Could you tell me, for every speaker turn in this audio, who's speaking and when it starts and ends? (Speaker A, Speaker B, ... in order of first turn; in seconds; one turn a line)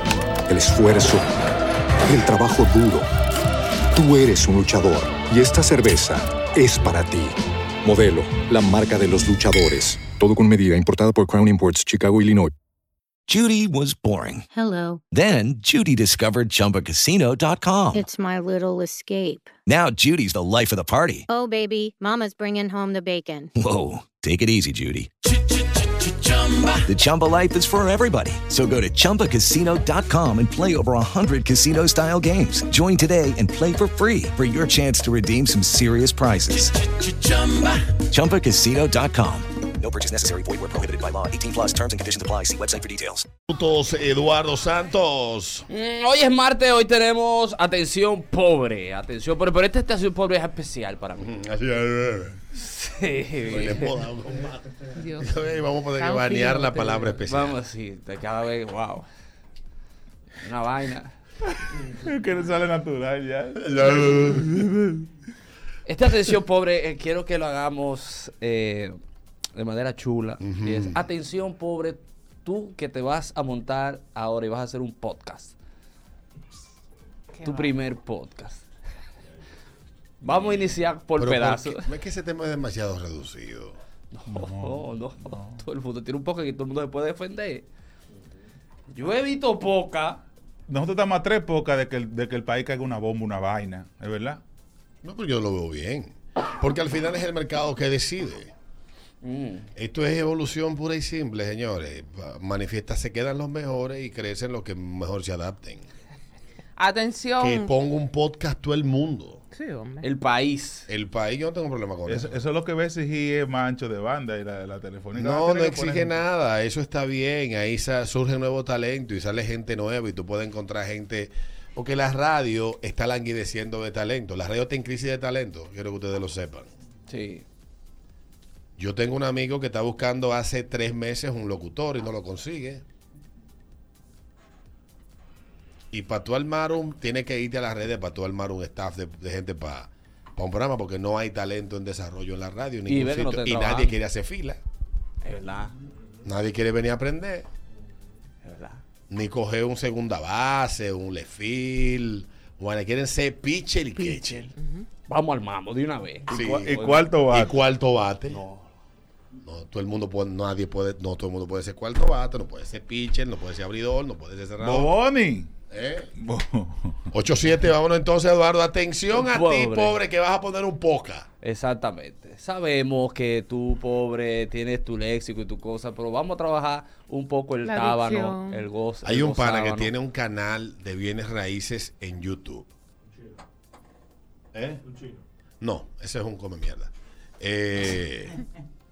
Speaker A: 0.5-1.3
Speaker A: 2.0-3.1
Speaker A: 3.9-12.5
Speaker B: 13.3-14.4
Speaker C: 14.5-15.1
Speaker B: 15.1-18.0
Speaker C: 17.9-19.6
Speaker B: 19.6-21.3
Speaker C: 21.3-23.5
Speaker B: 23.6-25.1
Speaker B: 26.8-37.5
Speaker B: 38.1-43.3
Speaker D: 43.5-45.6
Speaker E: 45.7-51.2
Speaker D: 51.1-52.4
Speaker E: 52.5-53.9
Speaker D: 53.5-54.6
Speaker F: 55.0-55.4
Speaker D: 55.2-57.5
Speaker F: 56.0-57.1
Speaker E: 57.2-59.0
Speaker E: 60.4-61.1
Speaker G: 62.0-65.0
Speaker D: 63.6-64.5
Speaker E: 65.8-68.9
Speaker E: 69.5-75.5
Speaker D: 70.4-71.0
Speaker F: 77.3-77.8
Speaker E: 77.4-78.6
Speaker E: 80.2-81.8
Speaker D: 81.2-83.8
Speaker E: 84.1-87.7
Speaker G: 84.3-85.6
Speaker E: 88.9-90.2
Speaker G: 90.7-94.4
Speaker D: 95.0-98.5
Speaker E: 99.2-99.7
Speaker D: 99.7-105.8
Speaker F: 106.8-107.7
Speaker D: 107.4-109.4
Speaker F: 109.5-110.1
Speaker E: 110.0-110.8
Speaker D: 110.9-112.3
Speaker G: 112.0-116.2
Speaker D: 115.1-126.7
Speaker E: 127.1-127.4
Speaker D: 128.8-132.8
Speaker D: 135.9-144.6
Speaker E: 142.9-143.9
Speaker E: 145.2-145.7
Speaker D: 146.2-147.5
Speaker E: 148.4-148.8
Speaker D: 149.1-154.5
Speaker F: 154.5-154.8
Speaker E: 155.1-157.1
Speaker D: 156.3-158.4
Speaker G: 156.4-157.5
Speaker E: 158.3-158.7
Speaker D: 159.4-164.9
Speaker G: 164.6-165.5
Speaker D: 165.7-166.1
Speaker G: 166.2-167.0
Speaker D: 167.1-171.3
Speaker E: 169.2-170.0
Speaker E: 171.4-179.9
Speaker F: 177.7-178.6
Speaker D: 179.0-182.7
Speaker D: 184.5-184.8
Speaker D: 185.6-188.3